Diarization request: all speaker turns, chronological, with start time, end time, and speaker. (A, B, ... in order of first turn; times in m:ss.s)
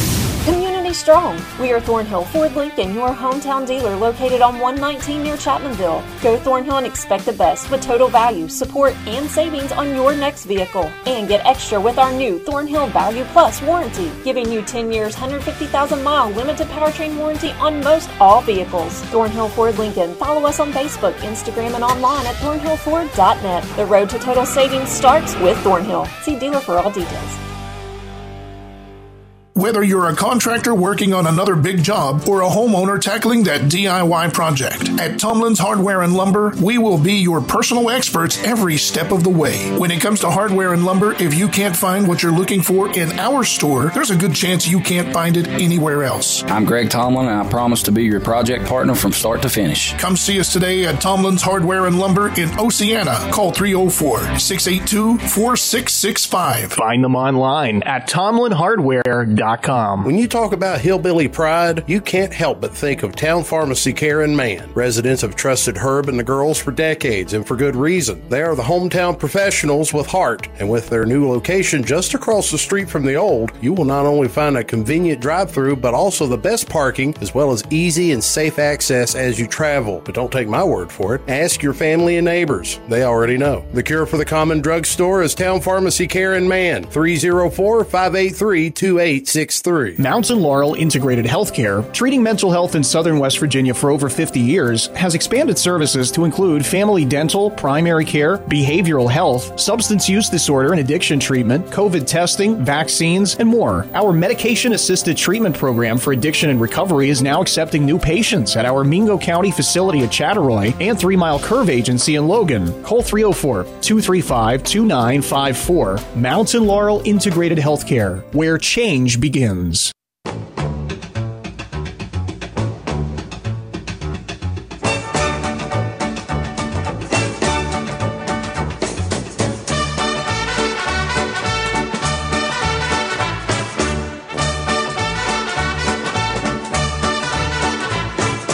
0:00.4-0:27.4 A
0:29.6-0:46.4 B
0:46.5-0:50.0 C
0:50.0-0:56.8 B
0:56.8-1:00.1 D
1:00.0-1:30.0 E
1:30.0-1:59.9 D